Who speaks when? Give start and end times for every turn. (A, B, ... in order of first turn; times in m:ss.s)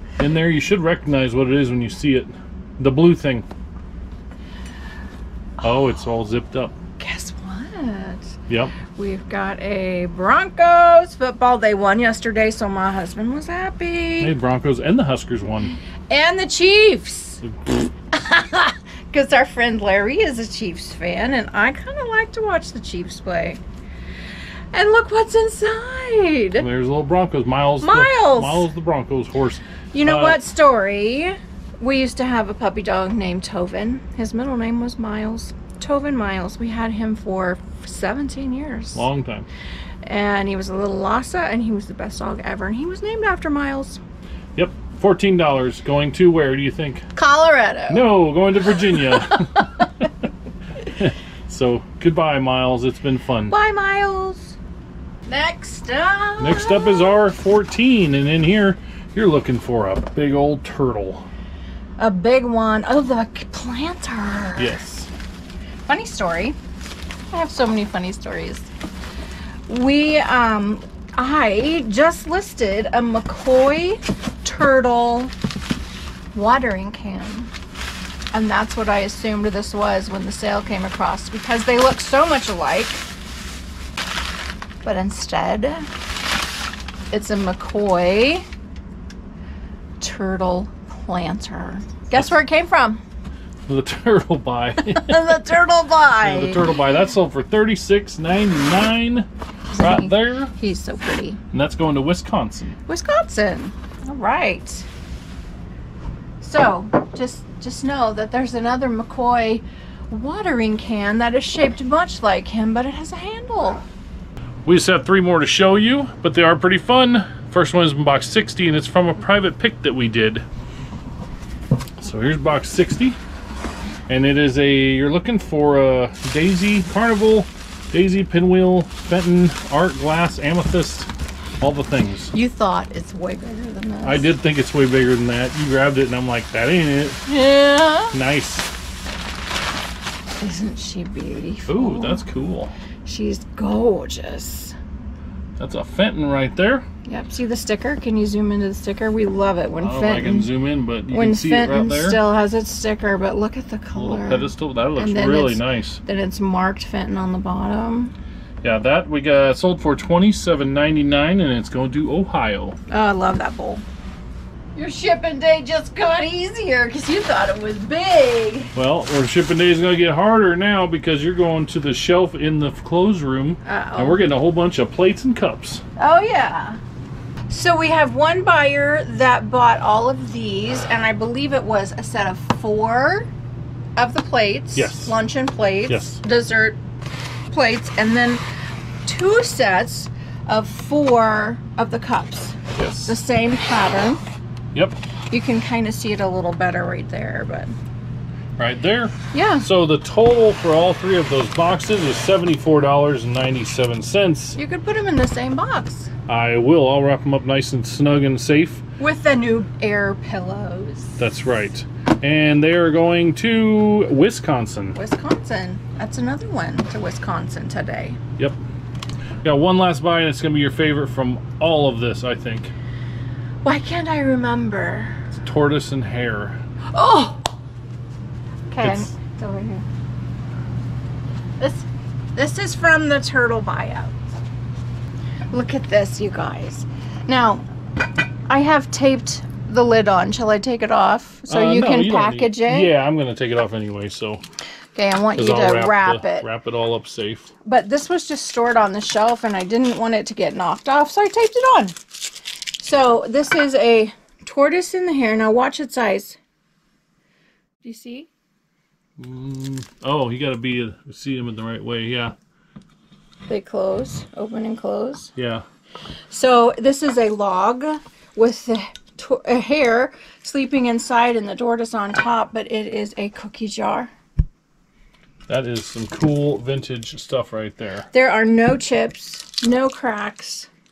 0:00.2-0:03.5 A
0:05.6-0:06.8 A
0:07.0-0:08.4 B
0:08.5-0:08.8 A
0:09.0-0:14.4 B
0:14.2-0:15.7 A
0:16.1-0:17.4 B
0:17.4-0:17.8 A
0:18.1-0:23.6 B
0:24.7-0:26.7 B
0:26.6-0:30.4 A
0:27.8-0:28.7 B
0:29.9-0:39.0 B
0:39.0-0:39.5 A
0:40.0-0:44.0 B
0:44.6-0:47.1 A
0:47.2-0:48.1 B
0:47.9-0:50.1 A
0:48.9-0:49.9 B
0:51.0-0:53.6 A
0:53.5-0:54.6 B
0:55.3-0:57.2 B
0:56.4-1:01.3 A
1:02.0-1:04.8 B
1:04.6-1:05.1 A
1:05.9-1:06.6 B
1:07.3-1:08.7 B
1:09.7-1:15.3 B
1:16.3-1:17.5 B
1:18.3-1:23.0 B
1:24.8-1:25.9 B
1:27.1-1:28.5 B
1:30.0-1:33.0 B
1:33.7-1:35.3 A
1:34.9-1:36.7 B
1:36.2-1:40.5 A
1:39.7-1:41.4 B
1:41.5-1:42.8 A
1:42.9-1:44.9 B
1:46.4-1:53.8 B
1:54.6-2:00.4 A
2:02.0-2:03.2 A
2:04.1-2:11.1 A
2:11.6-2:12.3 A
2:12.3-2:14.3 B
2:14.0-2:17.2 A
2:17.3-2:18.2 B
2:18.1-2:18.7 A
2:20.4-2:22.2 B
2:21.7-2:22.7 A
2:23.0-2:24.8 B
2:25.6-2:26.8 A
2:27.1-2:30.5 B
2:29.8-2:32.2 A
2:31.1-2:38.1 B
2:34.0-2:36.0 A
2:38.6-2:42.8 A
2:42.9-2:43.8 B
2:44.8-2:48.8 B
2:48.8-2:55.8 A
2:53.6-2:54.2 B
2:56.0-2:56.8 B
2:57.5-3:03.3 B
3:04.0-3:06.8 B
3:04.8-3:05.2 A
3:05.9-3:06.2 A
3:07.5-3:08.4 B
3:09.0-3:14.2 B
3:12.8-3:13.2 A
3:14.7-3:15.0 A
3:15.3-3:17.7 B
3:18.6-3:24.6 A
3:19.3-3:19.7 B
3:24.6-3:26.1 B
3:26.3-3:28.8 A
3:29.0-3:31.2 B
3:31.2-3:35.0 A
3:35.0-3:38.2 B
3:39.4-3:42.7 A
3:43.6-3:45.2 B
3:45.3-3:46.6 A
3:46.9-3:47.5 B
3:48.7-3:49.8 B
3:48.8-3:49.1 A
3:51.6-3:54.2 B
3:55.5-3:57.7 B
3:58.5-4:02.9 B
4:01.5-4:04.4 A
4:05.0-4:06.5 B
4:05.4-4:07.5 A
4:07.6-4:12.0 B
4:12.8-4:16.4 B
4:17.8-4:18.3 B
4:19.2-4:22.4 A
4:23.5-4:25.3 B
4:25.4-4:25.6 A
4:26.3-4:34.1 B
4:35.5-4:38.1 A
4:38.1-4:40.7 B